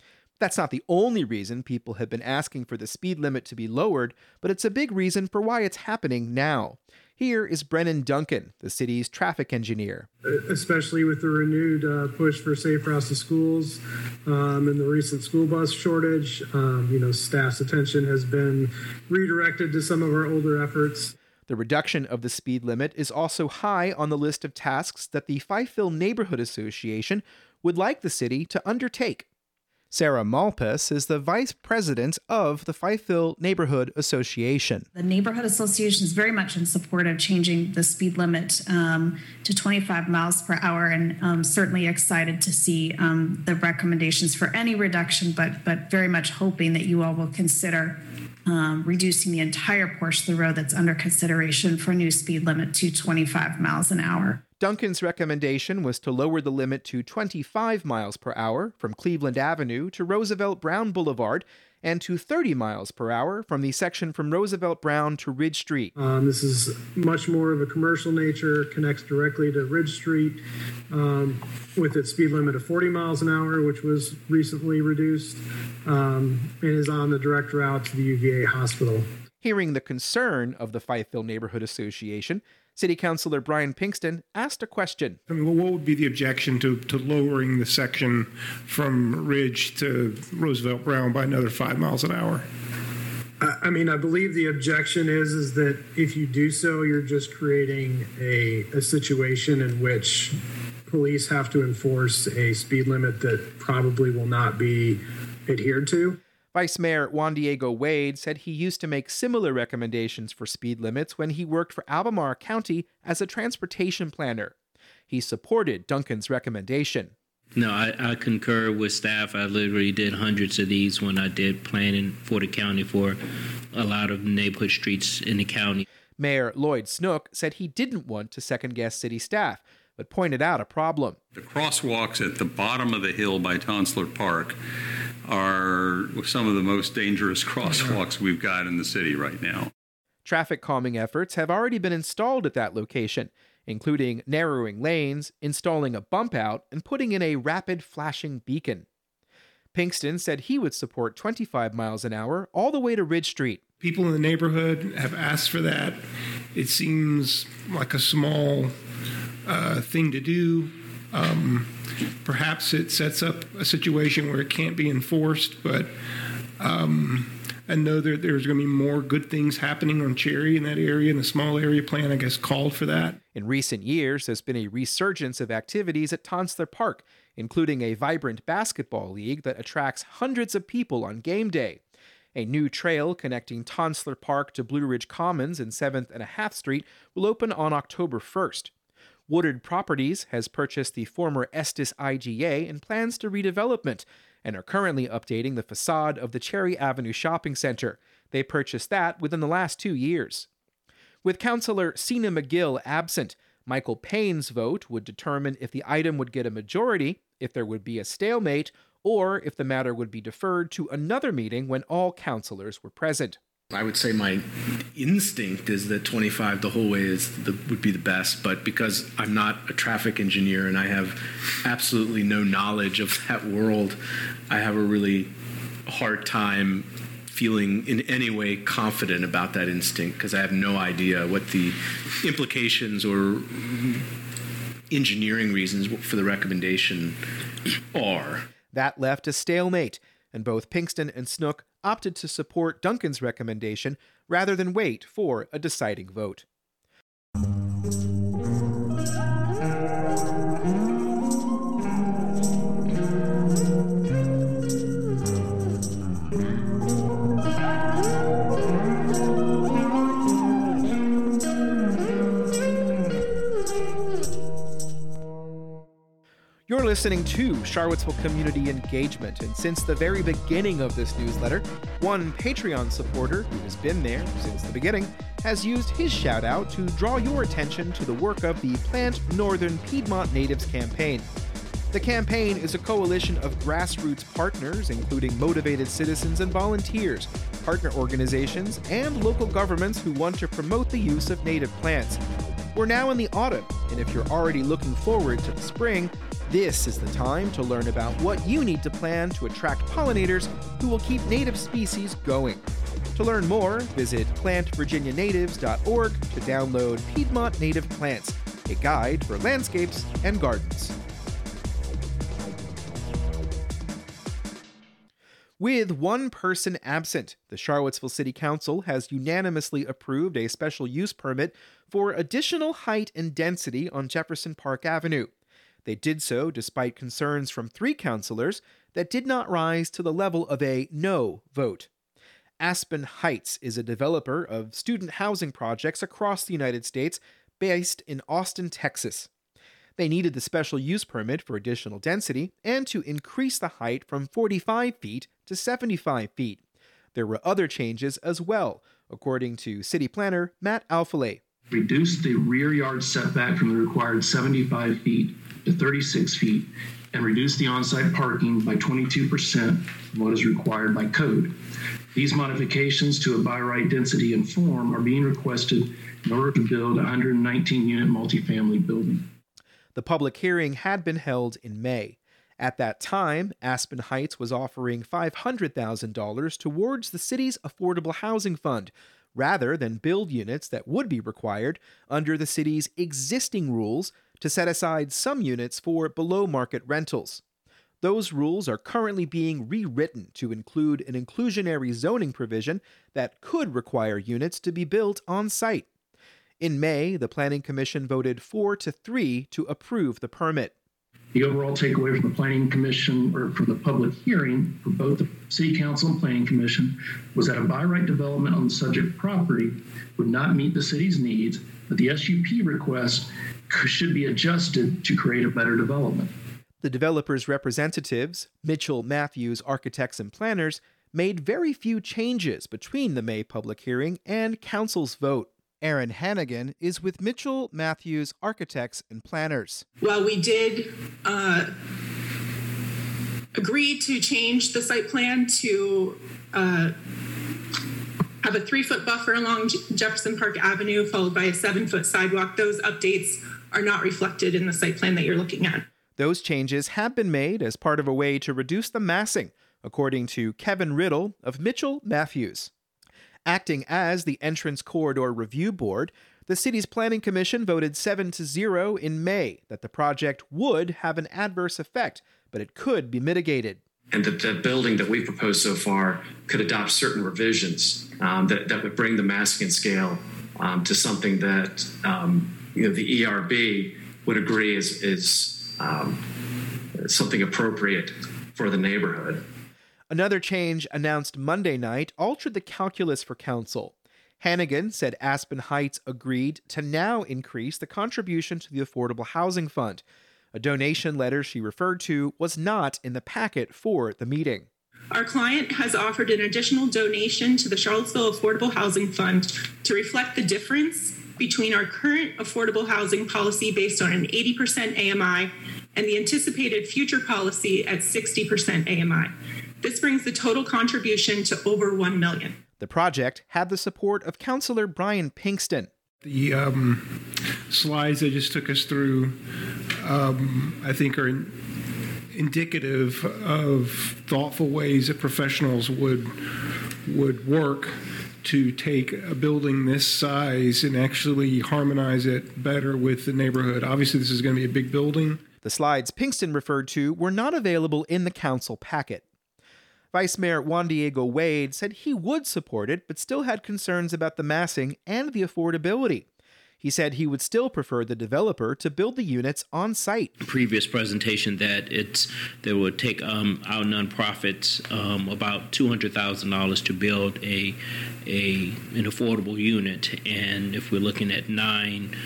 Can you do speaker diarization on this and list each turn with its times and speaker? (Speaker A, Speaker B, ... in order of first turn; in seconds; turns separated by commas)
Speaker A: 0.4-10.1, Speaker B: 10.2-21.1, Speaker A: 21.5-29.2, Speaker A: 29.9-34.9, Speaker C: 34.9-54.4, Speaker A: 54.6-65.9, Speaker B: 66.0-70.4, Speaker B: 70.9-79.1, Speaker A: 79.4-85.2, Speaker D: 85.3-92.5, Speaker B: 93.4-100.3, Speaker B: 100.9-106.2, Speaker A: 106.5-114.5, Speaker A: 115.1-117.1, Speaker E: 117.6-123.2, Speaker C: 118.9-119.2, Speaker C: 120.5-122.9, Speaker E: 123.7-125.8, Speaker C: 123.8-124.2, Speaker A: 126.2-131.2, Speaker F: 131.3-134.6, Speaker F: 135.3-139.7, Speaker A: 140.2-148.8, Speaker A: 149.7-153.6, Speaker D: 153.8-156.0, Speaker D: 156.6-158.7, Speaker D: 159.4-165.9, Speaker D: 166.6-173.2, Speaker A: 173.3-181.8, Speaker A: 182.3-188.7, Speaker A: 189.3-200.5, Speaker A: 201.2-213.4, Speaker G: 213.7-214.4, Speaker G: 214.9-224.0, Speaker G: 224.5-225.3, Speaker G: 225.9-234.1, Speaker G: 234.9-237.2, Speaker G: 237.8-238.5, Speaker A: 238.7-246.4, Speaker A: 266.7-281.3, Speaker A: 281.9-292.2, Speaker A: 292.7-302.6, Speaker A: 303.1-310.9, Speaker A: 315.6-325.3, Speaker A: 325.8-331.9, Speaker A: 332.6-339.3, Speaker A: 340.0-346.6, Speaker A: 347.1-351.4, Speaker H: 351.7-361.5, Speaker H: 362.1-369.3, Speaker A: 369.9-387.4, Speaker A: 388.0-395.9, Speaker A: 396.6-400.7, Speaker H: 401.3-416.3, Speaker A: 416.8-429.8, Speaker I: 430.0-431.7, Speaker I: 433.6-436.9, Speaker I: 438.4-445.8, Speaker A: 446.2-452.7, Speaker A: 453.5-463.8, Speaker J: 464.1-476.2, Speaker J: 477.0-479.4, Speaker A: 480.1-490.0, Speaker A: 490.5-494.7, Speaker I: 495.1-512.6, Speaker A: 512.8-515.9, Speaker D: 516.2-517.1, Speaker D: 517.7-519.4, Speaker D: 520.0-521.6, Speaker D: 522.3-526.3, Speaker D: 527.1-535.4, Speaker A: 535.6-539.2, Speaker A: 540.1-546.2, Speaker A: 546.8-550.3, Speaker C: 550.5-557.7, Speaker E: 550.5-557.7, Speaker C: 558.3-562.1, Speaker E: 558.3-562.1